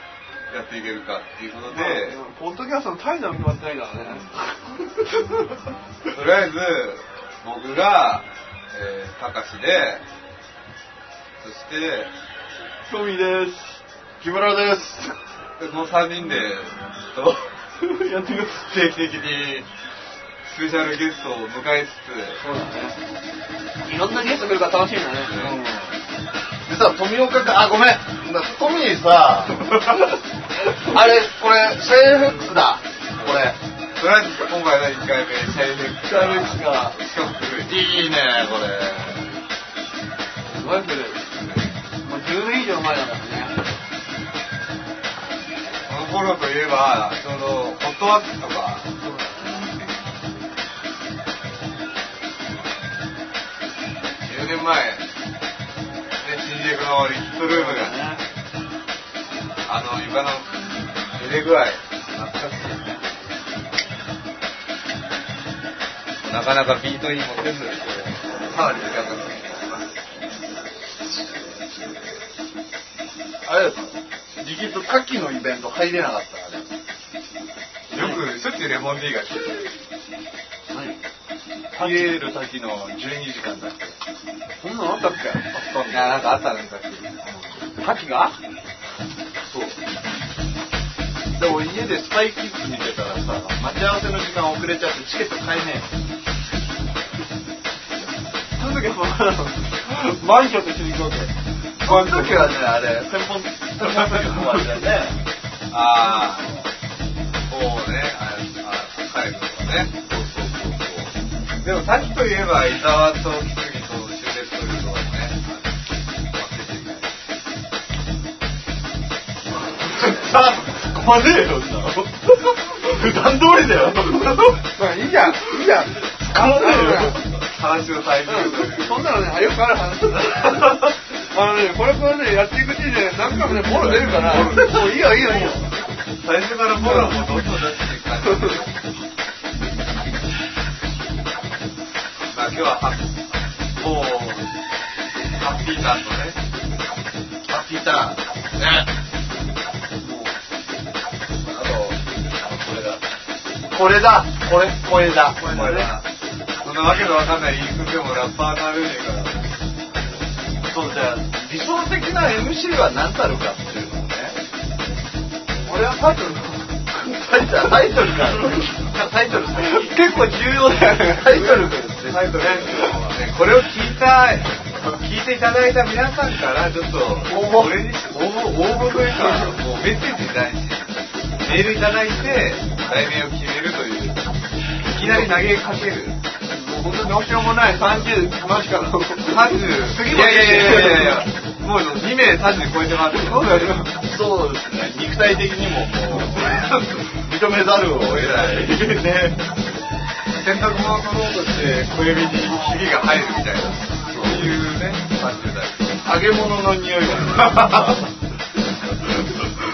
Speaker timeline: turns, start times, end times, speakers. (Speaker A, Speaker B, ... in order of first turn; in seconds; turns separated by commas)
Speaker A: 0.5-2.2, Speaker B: 1.7-5.2, Speaker A: 6.1-10.1, Speaker A: 11.4-12.1, Speaker B: 12.9-13.8, Speaker C: 14.2-15.2, Speaker A: 15.6-17.6, Speaker B: 17.8-18.7, Speaker A: 18.6-19.7, Speaker A: 20.4-22.4, Speaker B: 22.4-23.0, Speaker B: 23.8-25.4, Speaker C: 25.3-26.0, Speaker C: 26.6-30.0, Speaker C: 30.6-33.6, Speaker A: 33.2-37.7, Speaker B: 36.1-36.9, Speaker C: 37.7-39.3, Speaker B: 40.5-41.2, Speaker A: 41.4-41.7, Speaker B: 42.0-43.6, Speaker A: 45.9-48.9, Speaker B: 49.0-49.6, Speaker A: 54.2-55.0, Speaker A: 56.2-58.0, Speaker B: 57.5-58.2, Speaker A: 59.7-63.0, Speaker A: 66.2-69.9, Speaker C: 73.5-76.7, Speaker A: 77.9-79.7, Speaker B: 80.7-81.0, Speaker C: 81.7-84.0, Speaker B: 81.7-82.1, Speaker B: 84.6-85.5, Speaker C: 85.5-86.3, Speaker A: 85.9-87.2, Speaker B: 87.8-88.3, Speaker C: 91.3-95.9, Speaker B: 98.6-102.6, Speaker C: 101.8-105.2, Speaker A: 105.7-106.5, Speaker A: 107.5-111.1, Speaker C: 110.2-110.8, Speaker A: 111.6-115.7, Speaker A: 116.3-117.1, Speaker C: 119.8-124.6, Speaker B: 124.7-127.2, Speaker C: 126.4-127.0, Speaker A: 126.8-129.3, Speaker B: 128.3-135.7, Speaker A: 133.5-135.5, Speaker A: 136.2-138.8, Speaker A: 142.3-143.2, Speaker C: 144.0-144.2, Speaker A: 145.4-146.4, Speaker C: 147.5-148.9, Speaker B: 150.0-150.4, Speaker C: 151.4-153.0, Speaker C: 153.7-155.9, Speaker A: 155.4-156.0, Speaker B: 155.5-155.9, Speaker A: 156.6-159.4, Speaker C: 160.7-164.4, Speaker B: 165.7-166.8, Speaker C: 166.9-170.1, Speaker B: 169.6-172.5, Speaker C: 170.9-172.8, Speaker A: 172.1-184.2, Speaker B: 177.3-177.7, Speaker B: 179.1-179.5, Speaker A: 184.9-186.2, Speaker B: 186.4-191.2, Speaker A: 189.2-193.8, Speaker B: 193.1-193.9, Speaker C: 194.0-199.4, Speaker A: 196.3-196.8, Speaker A: 197.9-199.1, Speaker A: 200.4-205.9, Speaker C: 204.1-204.4, Speaker C: 206.0-208.1